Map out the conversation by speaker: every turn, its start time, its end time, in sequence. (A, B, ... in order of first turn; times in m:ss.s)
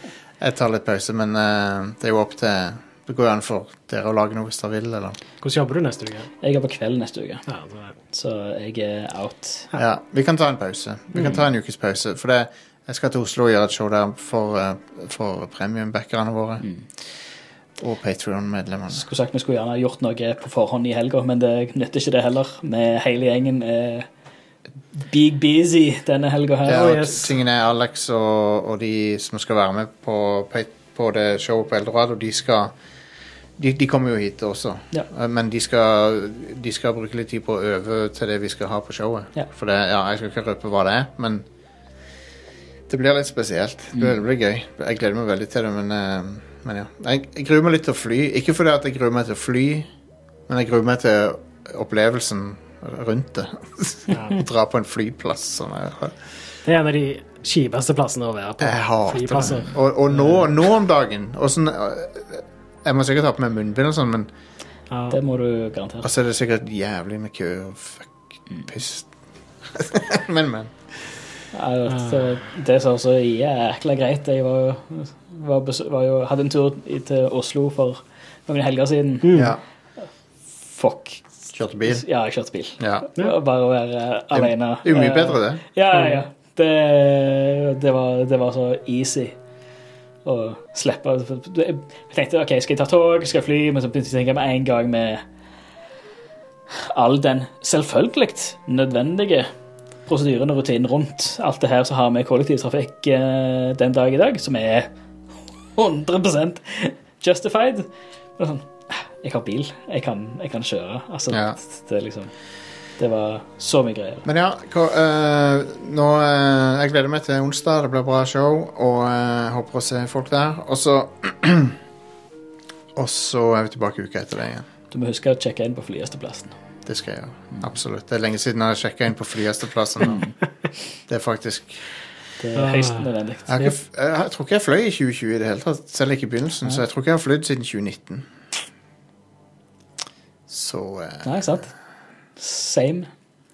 0:00.4-0:05.2 A
0:05.4-0:06.3 B
0:06.4-0:07.4 C
0:07.5-0:08.0 B
0:08.1-0:09.7 C
0:09.7-0:16.6 A
0:17.8-0:19.1 A
0:18.9-0:24.1 C
0:25.0-0:27.2 C
0:26.7-0:32.7 A
0:26.7-0:27.1 B
0:33.6-0:41.4 A
0:42.9-0:49.9 A
0:50.5-0:56.2 A
0:54.1-0:54.4 B
0:56.6-1:00.4 B
0:58.6-1:04.3 A
1:04.9-1:05.2 B
1:05.1-1:06.1 C
1:06.0-1:08.1 A
1:08.6-1:09.1 A
1:09.7-1:10.7 A
1:11.5-1:19.3 C
1:19.2-1:19.6 B
1:19.3-1:19.6 A
1:20.7-1:21.2 C
1:21.5-1:22.0 A
1:21.9-1:29.4 C
1:22.8-1:23.1 A
1:24.3-1:25.6 A
1:30.2-1:35.2 C
1:36.7-1:39.5 C
1:40.1-1:44.9 C
1:45.8-1:52.3 C
1:51.3-1:51.6 A
1:53.0-1:54.2 C
1:54.2-2:01.8 A
2:03.0-2:04.6 A
2:04.9-2:06.5 C
2:06.9-2:10.2 A
2:10.0-2:10.3 C
2:11.1-2:11.8 A
2:12.4-2:13.7 C
2:12.6-2:13.0 B
2:13.5-2:18.3 A
2:20.5-2:21.3 A
2:21.2-2:21.7 C
2:22.4-2:23.1 C